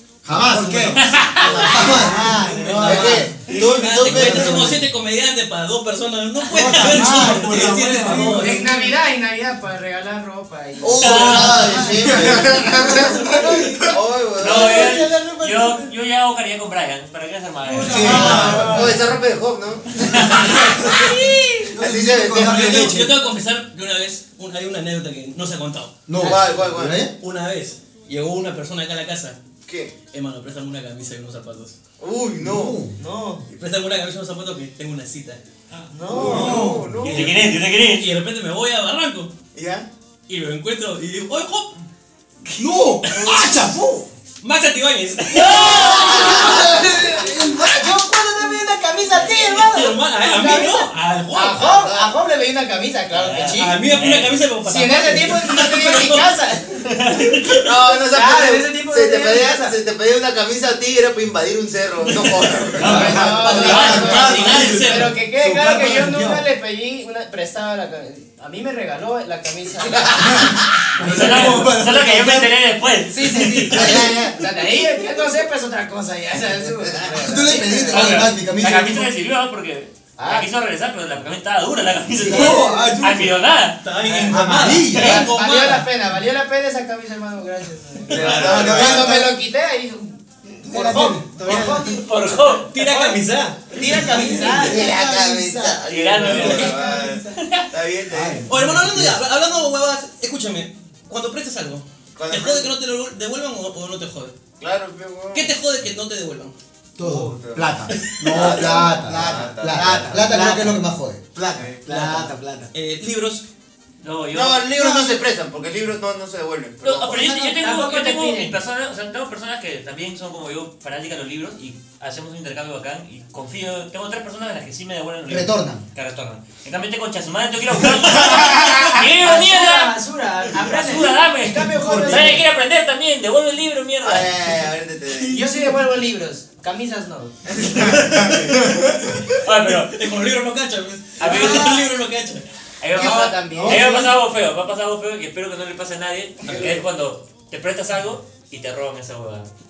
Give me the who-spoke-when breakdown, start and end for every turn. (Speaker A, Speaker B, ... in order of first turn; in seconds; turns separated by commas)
Speaker A: 0.2-3.3, Speaker B: 0.3-3.3, Speaker C: 1.0-1.7, Speaker D: 1.4-8.8, Speaker E: 1.6-1.9, Speaker F: 2.7-4.8, Speaker A: 4.0-4.9, Speaker A: 6.6-8.6, Speaker B: 6.6-8.9, Speaker E: 8.2-13.9, Speaker F: 10.8-13.3, Speaker C: 11.1-11.5, Speaker A: 11.1-13.8, Speaker D: 11.1-11.4, Speaker B: 11.6-13.7, Speaker F: 13.9-15.1, Speaker C: 14.4-18.3, Speaker B: 14.5-15.9, Speaker B: 17.6-18.7, Speaker A: 17.7-19.1, Speaker D: 18.0-18.9, Speaker E: 18.1-18.8, Speaker F: 18.1-21.1, Speaker C: 20.1-21.6, Speaker A: 21.7-23.1, Speaker F: 21.7-23.0, Speaker D: 22.4-29.4, Speaker A: 26.1-27.1, Speaker F: 26.2-27.1, Speaker F: 29.6-29.9, Speaker D: 30.1-31.8, Speaker F: 32.0-32.8, Speaker A: 32.4-32.9, Speaker E: 33.0-33.5, Speaker D: 33.5-35.4, Speaker E: 35.9-36.8, Speaker F: 36.1-37.3, Speaker D: 36.1-39.3, Speaker A: 36.1-36.9, Speaker C: 37.0-38.1, Speaker F: 39.5-39.9, Speaker D: 40.3-41.8, Speaker D: 42.5-43.7, Speaker A: 42.6-44.0, Speaker D: 44.4-46.5, Speaker C: 45.3-46.6, Speaker A: 45.6-48.0, Speaker E: 45.7-53.8, Speaker B: 47.6-48.6, Speaker D: 49.2-51.7, Speaker F: 51.5-52.2, Speaker C: 53.1-54.3, Speaker D: 53.4-56.4, Speaker E: 54.6-57.1, Speaker C: 57.0-57.5, Speaker F: 57.6-63.9, Speaker E: 58.1-59.8, Speaker A: 62.8-66.5, Speaker E: 62.8-71.8, Speaker C: 62.8-64.8, Speaker D: 62.8-65.2, Speaker F: 69.8-70.9, Speaker A: 71.0-72.5, Speaker C: 71.0-73.5, Speaker B: 71.6-72.4, Speaker E: 73.1-78.3, Speaker D: 73.5-74.0, Speaker F: 73.7-74.5, Speaker F: 76.6-77.6, Speaker A: 77.2-79.1, Speaker C: 77.9-83.8, Speaker E: 80.2-80.5, Speaker A: 82.2-83.4, Speaker E: 82.3-82.6, Speaker B: 82.4-82.9, Speaker D: 83.8-85.9, Speaker E: 84.1-84.4, Speaker A: 84.3-85.3, Speaker E: 85.0-95.1, Speaker D: 88.1-88.4, Speaker A: 88.1-89.3, Speaker F: 88.1-89.2, Speaker B: 88.4-89.3, Speaker B: 90.6-92.0, Speaker C: 91.5-92.7, Speaker D: 92.4-94.7, Speaker B: 94.2-95.8, Speaker F: 94.5-98.4, Speaker C: 95.9-97.7, Speaker E: 96.1-97.3, Speaker B: 96.3-96.8, Speaker B: 98.1-98.4, Speaker A: 98.2-99.2, Speaker D: 98.5-104.3, Speaker F: 102.2-102.7, Speaker F: 104.6-105.5, Speaker D: 105.3-106.5, Speaker A: 107.0-111.3, Speaker F: 107.0-110.3, Speaker D: 107.9-108.5, Speaker B: 108.5-110.7, Speaker B: 111.4-112.3, Speaker E: 111.8-112.7, Speaker D: 111.9-113.5, Speaker C: 114.0-114.7, Speaker F: 114.3-117.3, Speaker B: 114.8-115.2, Speaker C: 116.8-129.9, Speaker E: 117.2-118.6, Speaker A: 125.3-125.8, Speaker E: 128.6-132.4, Speaker C: 130.6-134.3, Speaker A: 131.8-132.4, Speaker F: 134.0-135.6, Speaker E: 135.2-137.4, Speaker F: 137.6-138.4, Speaker D: 137.7-142.5, Speaker C: 139.4-139.9, Speaker C: 141.2-141.9, Speaker E: 141.2-141.7, Speaker C: 142.8-149.5, Speaker E: 142.9-144.1, Speaker F: 143.0-143.3, Speaker B: 143.5-143.8, Speaker D: 146.4-146.8